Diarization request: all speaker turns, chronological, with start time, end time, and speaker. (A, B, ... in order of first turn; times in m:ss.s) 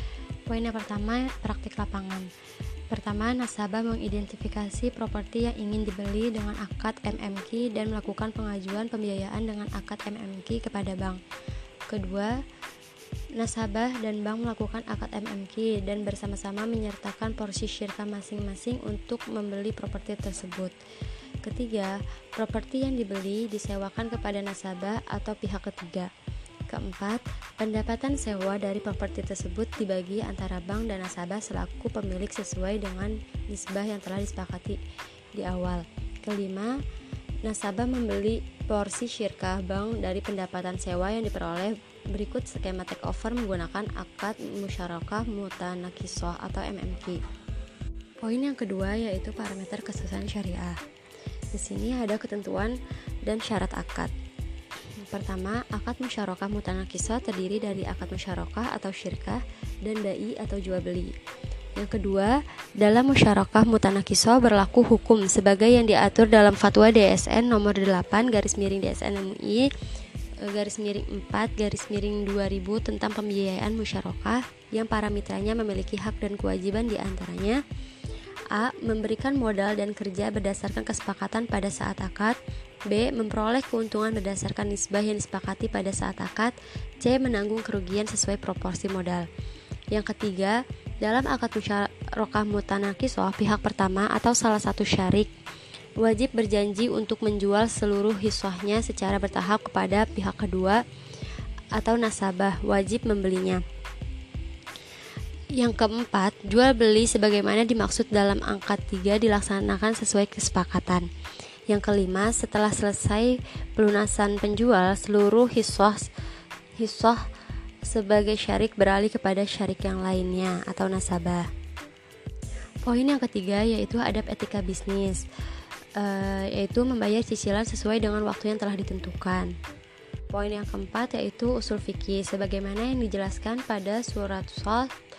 0:00.5-0:02.3 A
0:02.9-0:11.2 A
0:11.9-0:12.3 A
0:13.4-0:20.7 A
0:21.4-0:26.1 A
0:26.7-0:34.8 A
0:35.3-0:36.7 A
0:37.4-0:47.2 A
0:48.2-0:50.8 A
0:51.5-0:54.1 A
0:55.0-1:01.2 A
1:01.7-1:09.7 A
1:10.4-1:17.6 A
1:18.5-1:22.4 A
1:22.9-1:29.2 A
1:29.9-1:35.3 A
1:36.0-1:40.8 A
1:41.7-1:43.6 A
1:45.6-1:51.1 A
1:51.7-1:56.1 A
1:56.8-1:57.2 A
1:57.8-2:01.5 A
2:02.8-2:05.2 A
2:06.0-2:09.5 A
2:10.3-2:14.9 A